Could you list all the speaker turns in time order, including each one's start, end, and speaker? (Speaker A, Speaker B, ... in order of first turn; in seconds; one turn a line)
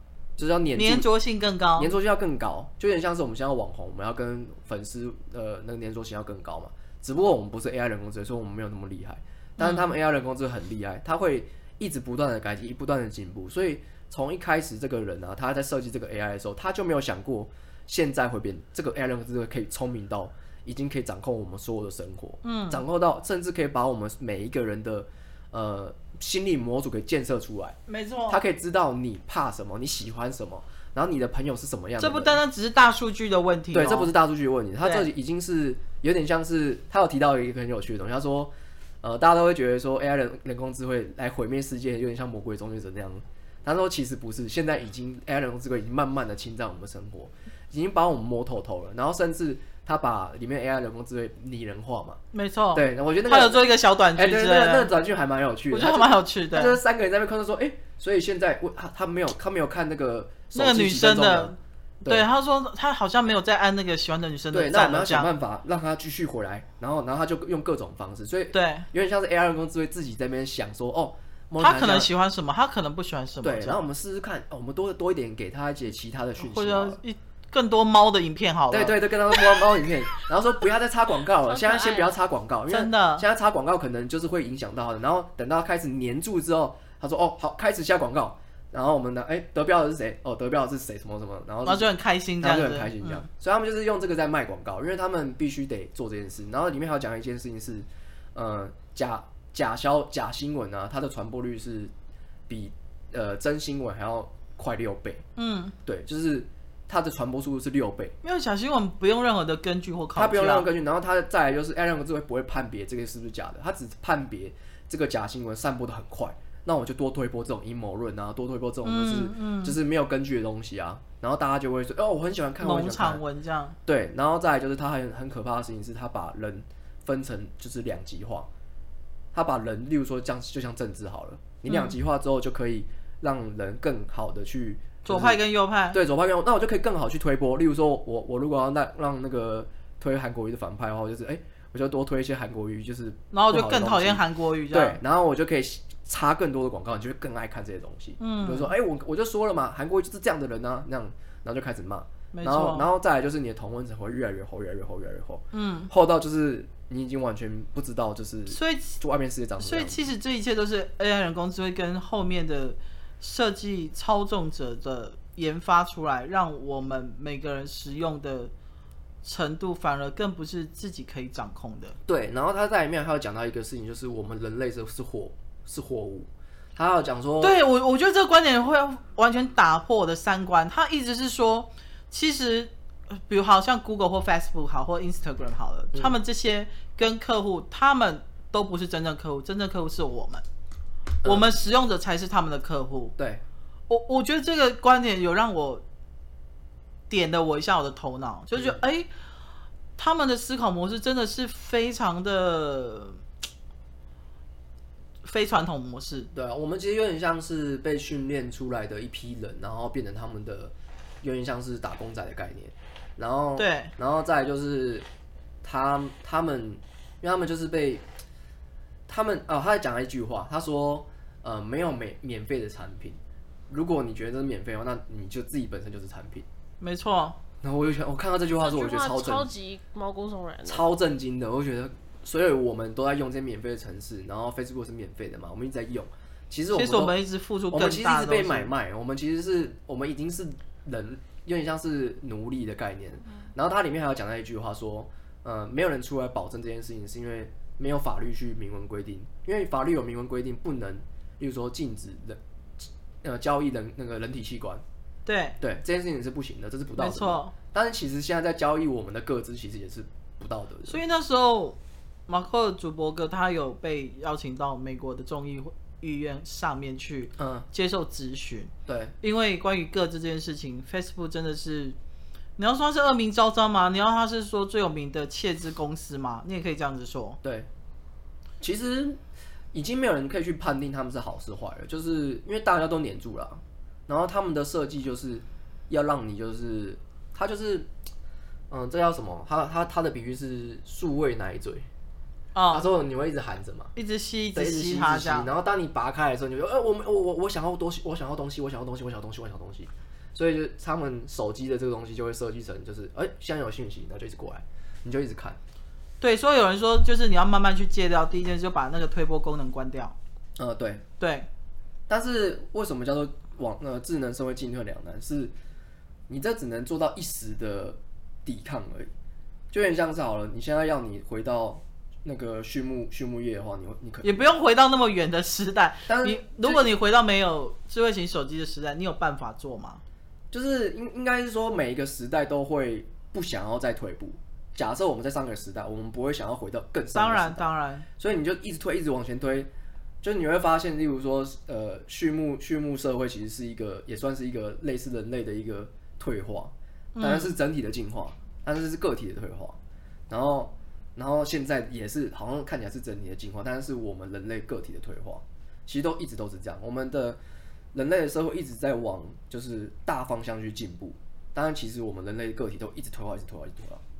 Speaker A: 0.4-1.1
Speaker B: 0.7-1.9
Speaker A: 1.8-27.8
Speaker B: 9.6-9.9
Speaker B: 22.4-22.8
Speaker B: 27.9-28.4
Speaker A: 28.3-32.4
Speaker B: 32.0-34.1
Speaker A: 33.7-52.2
Speaker B: 34.8-35.1
Speaker B: 52.3-54.9
Speaker A: 52.7-62.3
Speaker B: 55.7-56.8
Speaker B: 60.5-65.3
Speaker A: 64.5-72.1
Speaker B: 68.5-68.9
Speaker B: 71.6-73.8
Speaker A: 73.4-77.0
Speaker B: 76.4-79.0
Speaker A: 78.7-91.9
Speaker C: 81.5-82.2
Speaker B: 82.7-83.2
Speaker B: 91.6-93.3
Speaker A: 92.4-101.9
Speaker A: 102.5-105.2
Speaker B: 105.3-105.7
Speaker A: 105.8-108.2
Speaker B: 108.2-110.7
Speaker A: 110.2-123.2
Speaker B: 118.8-119.8
Speaker B: 122.6-123.8
Speaker A: 123.8-128.5
Speaker A: 129.3-160.1
Speaker B: 131.7-131.9
Speaker B: 135.0-136.0
Speaker B: 143.3-145.0
Speaker B: 148.2-148.7
Speaker B: 152.3-152.9
Speaker B: 155.5-155.9
Speaker B: 158.5-159.0
Speaker B: 159.6-168.5
Speaker B: 169.2-172.0
Speaker A: 172.1-177.6
Speaker B: 177.4-190.4
Speaker A: 191.2-191.6
Speaker B: 191.2-193.2
Speaker A: 193.2-193.4
Speaker B: 193.9-195.8
Speaker B: 197.1-199.1
Speaker B: 200.0-203.2
Speaker B: 205.2-206.3
Speaker A: 206.3-215.1
Speaker B: 213.6-213.9
Speaker A: 215.6-218.0
Speaker A: 219.1-226.5
Speaker B: 226.8-227.4
Speaker A: 227.6-229.5
Speaker C: 228.6-230.8
Speaker A: 230.7-237.2
Speaker B: 236.7-238.7
Speaker A: 237.7-254.8
Speaker B: 255.2-255.6
Speaker A: 255.6-261.0
Speaker B: 257.0-257.5
Speaker B: 260.8-268.7
Speaker A: 267.4-267.6
Speaker A: 268.9-269.1
Speaker B: 269.2-271.9
Speaker B: 272.6-277.4
Speaker A: 277.4-277.7
Speaker A: 278.6-279.2
Speaker A: 279.7-287.9
Speaker A: 288.7-291.9
Speaker B: 292.5-292.9
Speaker A: 292.7-293.9
Speaker B: 293.9-295.5
Speaker A: 294.5-305.6
Speaker B: 306.2-310.1
Speaker A: 310.6-311.0
Speaker B: 311.2-311.5
Speaker A: 312.1-315.5
Speaker A: 316.3-319.1
Speaker A: 319.7-324.4
Speaker B: 324.2-330.0
Speaker A: 326.1-326.9
Speaker A: 330.5-337.6
Speaker B: 337.1-338.1
Speaker A: 338.2-339.7
Speaker A: 340.2-357.4
Speaker B: 347.1-347.6
Speaker A: 357.9-364.0